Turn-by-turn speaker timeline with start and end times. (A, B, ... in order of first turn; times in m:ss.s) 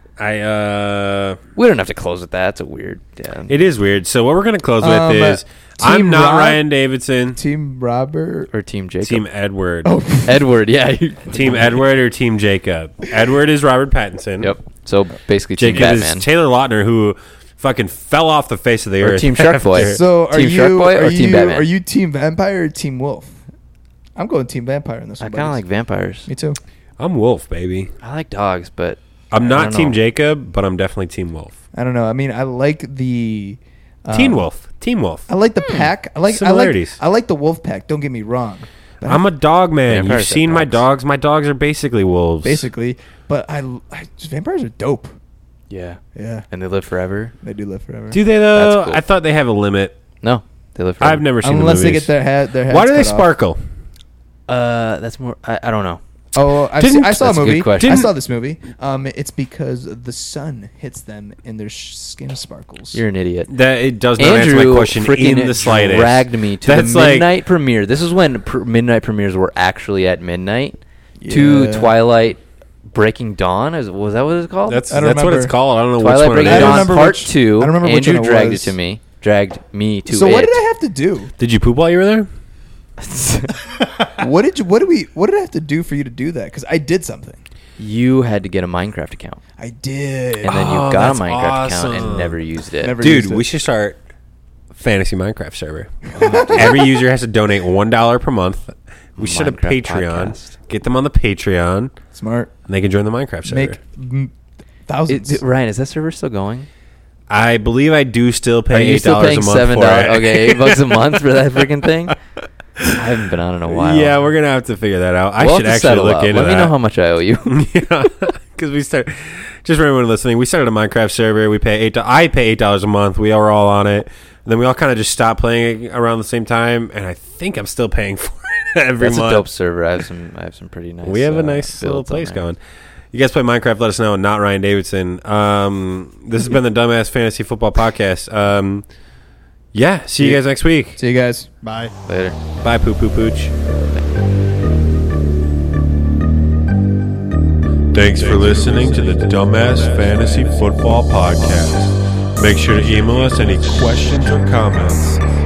0:00.2-0:01.4 A
0:01.6-0:03.5 B
0:03.5-0:07.4 A
0:04.8-0:06.6 C
0:07.3-0:08.5 C
0:08.5-0:09.2 B
0:09.0-0:09.9 A
0:09.8-0:10.5 C
0:10.2-0:11.7 B
0:11.3-0:14.5 A
0:14.4-0:16.3 B
0:15.6-0:20.0 A
0:19.0-0:21.7 B
0:19.7-0:23.4 C
0:24.2-0:25.6 C
0:25.2-0:26.3 B
0:26.3-0:26.6 C
0:27.0-0:27.9 A
0:28.0-0:30.0 B
0:29.3-0:31.6 A
0:31.7-0:34.4 C
0:34.1-0:35.3 A
0:35.3-0:39.2 C
0:36.3-0:37.0 A
0:39.0-0:42.7 A
0:39.9-0:40.8 B
0:42.4-0:45.1 C
0:45.7-0:46.0 B
0:46.1-0:46.4 C
0:46.5-0:47.3 B
0:47.4-0:48.2 C
0:48.1-0:50.0 A
0:48.5-0:49.0 B
0:50.2-0:51.2 B
0:51.0-0:52.1 A
0:51.4-0:53.3 C
0:52.7-0:53.6 A
0:54.5-0:56.0 B
0:56.3-1:03.0 C
0:56.8-0:58.1 A
0:57.1-0:58.1 B
1:02.9-1:03.5 B
1:03.5-1:07.3 A
1:04.2-1:10.8 B
1:11.2-1:11.9 C
1:11.3-1:14.8 B
1:14.7-1:17.0 A
1:14.9-1:15.5 C
1:16.0-1:20.6 B
1:16.4-1:18.7 C
1:20.1-1:21.3 C
1:21.4-1:22.3 A
1:23.0-1:23.5 B
1:23.7-1:24.2 D
1:24.2-1:27.4 C
1:27.8-1:29.4 B
1:29.6-1:30.6 C
1:30.4-1:33.2 B
1:30.4-1:32.4 A
1:32.8-1:33.5 C
1:33.0-1:34.0 A
1:34.7-1:41.9 A
1:36.1-1:36.8 B
1:36.2-1:36.8 C
1:39.2-1:40.5 B
1:42.1-1:42.5 C
1:42.7-1:43.8 A
1:43.5-1:44.3 C
1:44.9-1:45.4 C
1:45.1-1:46.7 B
1:47.3-1:51.4 A
1:48.7-1:52.2 B
1:52.9-1:54.2 B
1:53.7-1:56.7 A
1:55.4-1:57.6 B
1:57.4-2:09.4 A
2:09.0-2:12.4 B
2:11.0-2:12.6 A
2:13.1-2:18.9 A
2:19.7-2:21.0 A
2:21.0-2:21.5 C
2:21.6-2:22.0 D
2:22.0-2:22.4 B
2:22.6-2:23.5 A
2:27.9-2:35.2 A
2:28.2-2:30.8 D
2:32.9-2:34.1 D